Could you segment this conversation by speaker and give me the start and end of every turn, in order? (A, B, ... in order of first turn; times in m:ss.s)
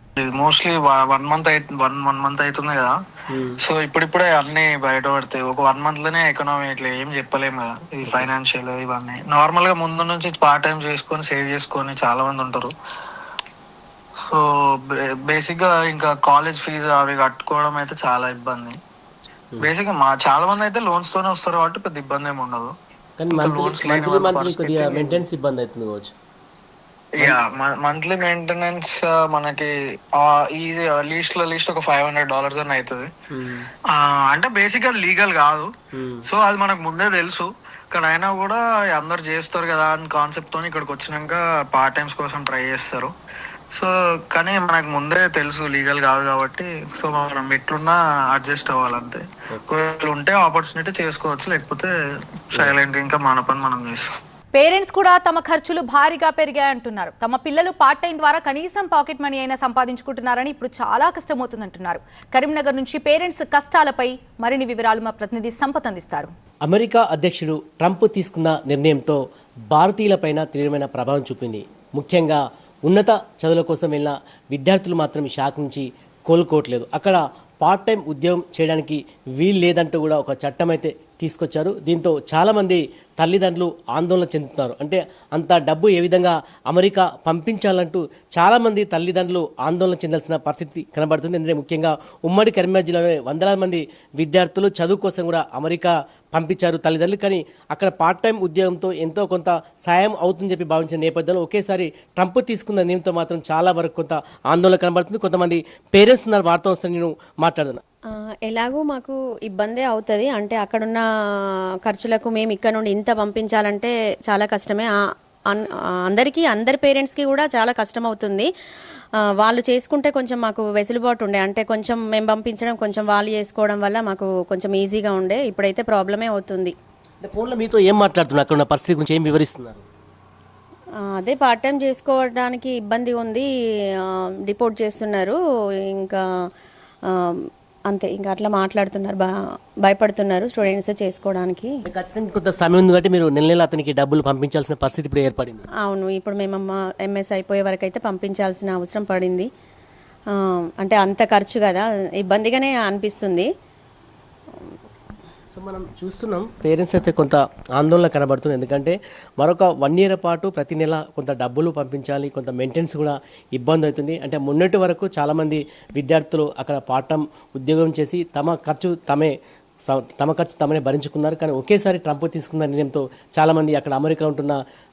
0:00.2-0:03.0 A
0:03.3-0:03.6 B
0:03.6-0:12.7 A
0:14.2-0:18.8 A
0:19.6-0:22.7 A
0:23.2-0:26.1 B
0:23.3-0:25.2 A
0:27.2-0:33.1 A
0:33.3-0:33.7 B
0:33.9-0:35.7 A
0:35.9-0:36.3 B
0:36.3-0:43.1 A
0:43.7-0:51.9 A
0:52.5-0:54.0 A
0:54.6-1:06.3 C
1:06.7-1:09.2 B
1:09.7-1:47.8 B
1:48.5-1:51.0 D
1:51.9-1:54.9 D
1:55.5-1:58.5 D
1:59.4-2:06.7 D
2:07.2-2:09.8 B
2:11.2-2:13.5 D
2:14.1-2:15.4 D
2:16.0-2:16.2 D
2:17.2-2:19.3 D
2:19.8-2:21.7 D
2:21.9-2:25.7 B
2:25.8-2:29.5 D
2:30.8-2:33.5 D
2:35.5-2:49.3 B
2:49.9-2:54.6 B